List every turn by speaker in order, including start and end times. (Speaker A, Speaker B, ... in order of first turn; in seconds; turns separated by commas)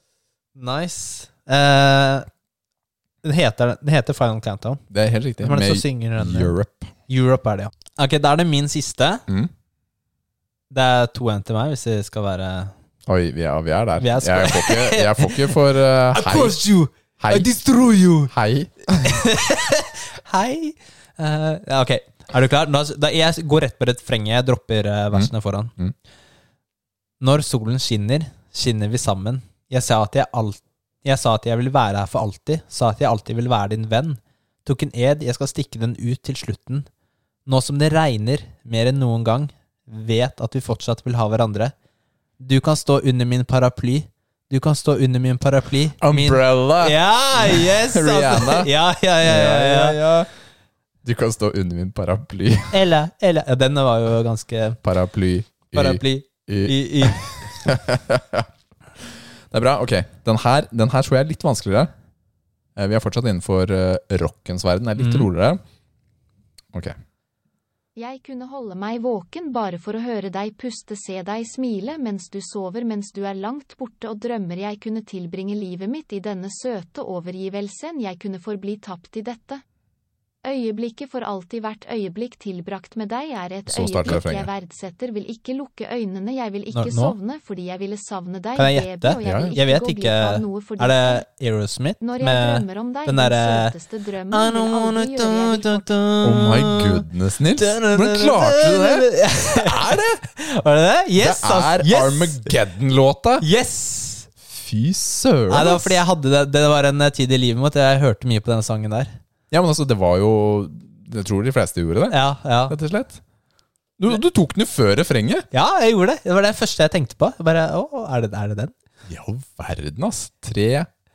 Speaker A: 0.6-2.3, Speaker A: 3.2-4.8, Speaker B: 4.9-6.9, Speaker A: 5.4-6.5, Speaker A: 7.1-9.2, Speaker A: 10.7-12.7, Speaker B: 13.1-16.6, Speaker A: 14.0-18.3, Speaker B: 17.2-17.5, Speaker B: 18.3-19.2, Speaker A: 19.0-25.7, Speaker B: 25.1-25.9, Speaker A: 27.2-36.9, Speaker A: 37.5-41.7, Speaker A: 42.4-50.0, Speaker B: 46.0-50.3, Speaker B: 51.0-52.8, Speaker A: 52.7-54.8, Speaker B: 54.8-58.5, Speaker A: 55.7-57.5, Speaker B: 59.0-61.9, Speaker B: 62.8-65.6, Speaker A: 65.0-65.3, Speaker C: 68.0-79.6, Speaker C: 80.4-91.2, Speaker B: 83.7-84.5, Speaker A: 86.7-87.2, Speaker A: 88.6-93.7, Speaker B: 89.2-89.5, Speaker C: 92.0-95.9, Speaker A: 94.3-102.6, Speaker B: 96.2-100.2, Speaker B: 101.2-103.5, Speaker A: 103.4-104.3, Speaker B: 104.5-106.0, Speaker A: 105.5-109.2, Speaker B: 109.5-113.2, Speaker A: 112.1-112.8, Speaker B: 114.0-115.5, Speaker A: 115.5-118.7, Speaker B: 119.1-120.9